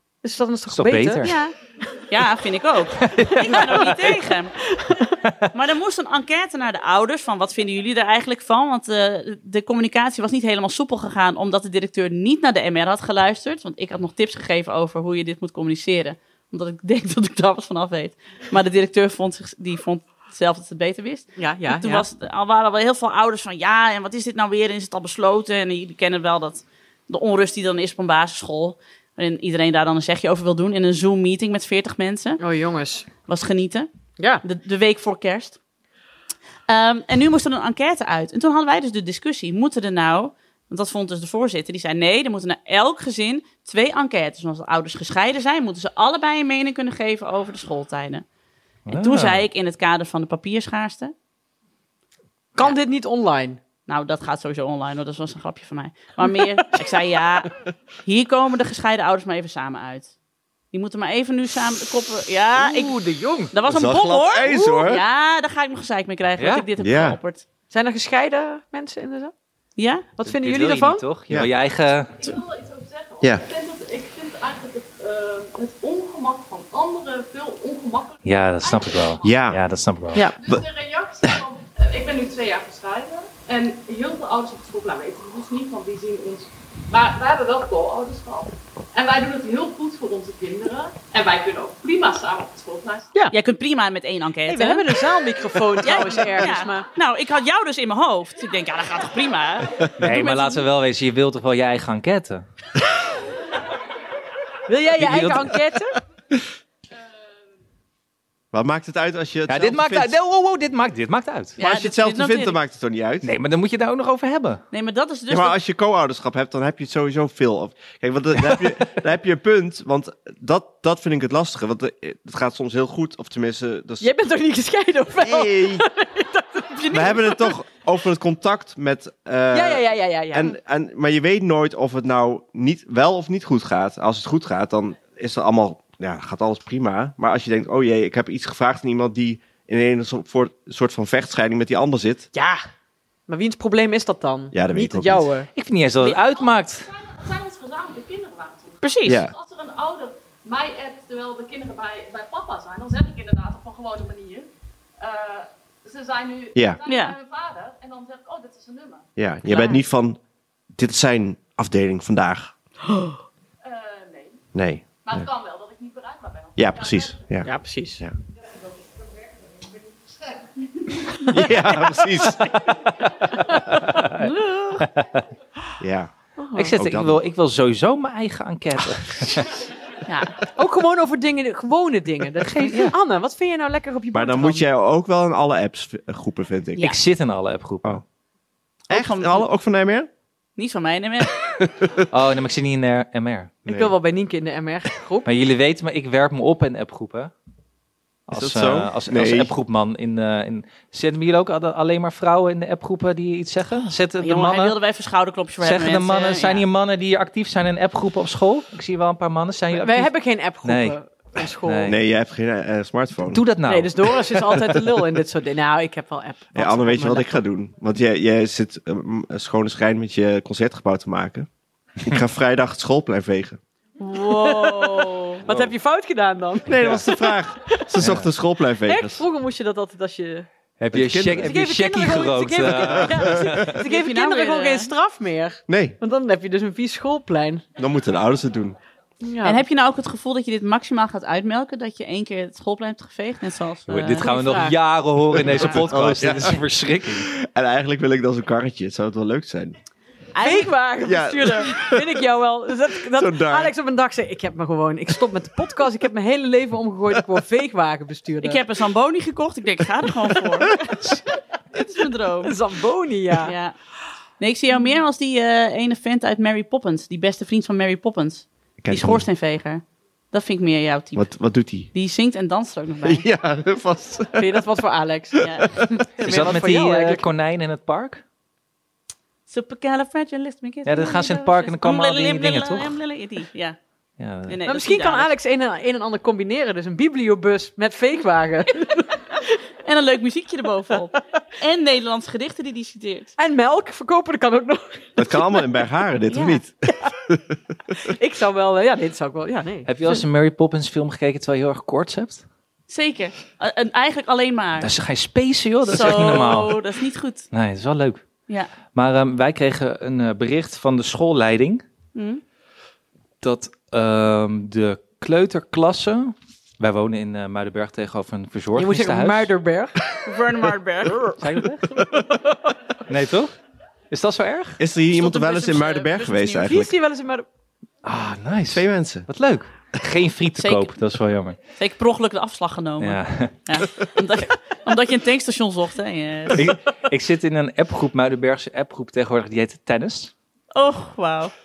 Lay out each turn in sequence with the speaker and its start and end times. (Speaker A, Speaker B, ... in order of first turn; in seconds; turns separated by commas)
Speaker A: 0.2-1.3, Speaker B: 0.7-1.3, Speaker C: 1.2-4.6, Speaker B: 3.0-3.6, Speaker A: 3.3-5.2, Speaker C: 5.5-32.4, Speaker A: 21.4-22.1, Speaker A: 32.4-33.1, Speaker C: 33.2-33.9, Speaker A: 34.2-34.4, Speaker C: 34.4-35.6, Speaker C: 36.7-48.2, Speaker B: 48.9-49.5, Speaker C: 48.9-51.1, Speaker A: 52.5-53.6, Speaker C: 53.9-57.5, Speaker C: 58.0-60.1, Speaker C: 60.7-63.0, Speaker B: 62.6-63.5, Speaker C: 63.5-67.4, Speaker D: 63.6-65.0, Speaker A: 64.5-64.9, Speaker B: 66.4-66.6, Speaker D: 66.8-67.2, Speaker A: 67.7-69.3, Speaker C: 69.8-70.1, Speaker A: 70.2-71.1, Speaker B: 70.2-72.3, Speaker E: 72.2-79.3, Speaker B: 78.2-80.2, Speaker D: 79.2-79.6, Speaker A: 80.1-80.4, Speaker E: 80.4-93.1, Speaker C: 93.3-95.0, Speaker A: 94.5-96.9, Speaker C: 95.7-100.7, Speaker B: 100.0-102.4, Speaker A: 104.7-106.0, Speaker B: 105.0-105.6, Speaker D: 108.5-110.1, Speaker B: 109.5-111.6, Speaker C: 111.6-112.6, Speaker D: 111.6-113.3, Speaker B: 113.2-114.6, Speaker C: 114.7-115.5, Speaker D: 115.3-124.2, Speaker A: 124.0-127.1, Speaker D: 125.2-125.8, Speaker C: 126.7-127.3, Speaker D: 126.9-142.3, Speaker A: 129.5-130.5, Speaker A: 142.3-142.6, Speaker A: 143.3-145.5, Speaker D: 144.5-145.3, Speaker B: 145.6-146.9, Speaker E: 146.0-159.1, Speaker C: 148.8-149.2, Speaker D: 149.1-149.3, Speaker D: 156.5-156.8, Speaker C: 156.8-157.2, Speaker D: 159.2-160.2, Speaker C: 159.5-159.8, Speaker D: 160.7-162.5, Speaker E: 163.6-164.4, Speaker D: 164.5-165.2, Speaker E: 165.0-167.3, Speaker D: 166.6-168.1, Speaker A: 167.4-168.0, Speaker A: 171.2-171.5, Speaker D: 171.3-172.4, Speaker A: 173.5-173.8, Speaker B: 173.8-175.1, Speaker C: 174.1-174.9, Speaker D: 175.8-176.1, Speaker A: 176.4-176.7, Speaker B: 176.5-179.5, Speaker D: 176.8-177.2, Speaker C: 180.1-180.4, Speaker A: 180.5-184.6, Speaker B: 182.4-182.9, Speaker D: 184.1-186.8, Speaker B: 186.8-188.0, Speaker C: 188.9-189.5, Speaker D: 188.9-190.1, Speaker C: 190.6-191.3, Speaker D: 191.4-192.1, Speaker B: 192.1-193.7, Speaker A: 193.7-195.3, Speaker D: 193.7-193.9, Speaker B: 195.2-197.3, Speaker B: 198.3-204.8, Speaker D: 198.3-199.5, Speaker C: 204.2-206.7, Speaker B: 205.6-212.0, Speaker A: 209.7-211.9, Speaker D: 211.9-213.4, Speaker B: 213.3-214.8, Speaker A: 213.7-217.4, Speaker D: 216.5-221.5, Speaker D: 222.0-223.6, Speaker C: 224.0-225.4, Speaker A: 224.1-227.8, Speaker B: 225.5-225.7, Speaker D: 226.7-229.2, Speaker B: 228.0-228.3, Speaker A: 228.8-230.5, Speaker B: 230.8-233.7, Speaker D: 230.9-231.5, Speaker A: 231.3-237.7, Speaker D: 232.8-233.6, Speaker C: 233.8-234.9, Speaker D: 235.7-236.0, Speaker D: 237.8-238.8, Speaker A: 239.2-239.6, Speaker C: 239.4-244.4, Speaker B: 243.9-247.3, Speaker A: 244.2-244.8, Speaker D: 245.5-249.8, Speaker C: 250.3-250.7, Speaker A: 250.4-258.6, Speaker D: 251.0-252.3, Speaker D: 253.1-253.7, Speaker C: 258.4-260.8, Speaker C: 261.7-262.6, Speaker A: 262.4-263.5, Speaker C: 263.4-263.8, Speaker C: 264.4-271.3, Speaker D: 268.8-269.2, Speaker D: 271.1-271.9, Speaker C: 271.9-273.2, Speaker D: 273.0-274.7, Speaker A: 274.4-275.4, Speaker C: 275.4-275.7, Speaker A: 276.2-277.3, Speaker B: 276.2-278.2, Speaker C: 279.5-283.8, Speaker B: 280.9-283.0, Speaker B: 284.2-284.6, Speaker C: 284.5-285.3, Speaker A: 284.7-289.6, Speaker C: 289.8-293.3, Speaker A: 293.4-295.5, Speaker D: 295.2-298.0, Speaker C: 296.3-296.6, Speaker A: 298.0-300.2, Speaker B: 299.9-302.4, Speaker C: 302.9-304.9, Speaker B: 304.8-306.8, Speaker C: 305.9-307.5, Speaker B: 307.5-308.2, Speaker B: 308.9-311.8, Speaker C: 312.1-312.4, Speaker B: 313.4-319.5, Speaker A: 318.7-320.1, Speaker C: 320.2-321.2, Speaker B: 321.4-321.9, Speaker B: 323.1-323.5, Speaker B: 324.1-324.8, Speaker D: 324.8-326.9, Speaker C: 325.1-326.7, Speaker A: 326.6-327.4, Speaker B: 328.0-331.6, Speaker D: 328.7-329.3, Speaker C: 330.6-330.9, Speaker C: 331.8-336.7, Speaker B: 333.0-333.5, Speaker B: 336.5-340.3, Speaker C: 340.7-341.5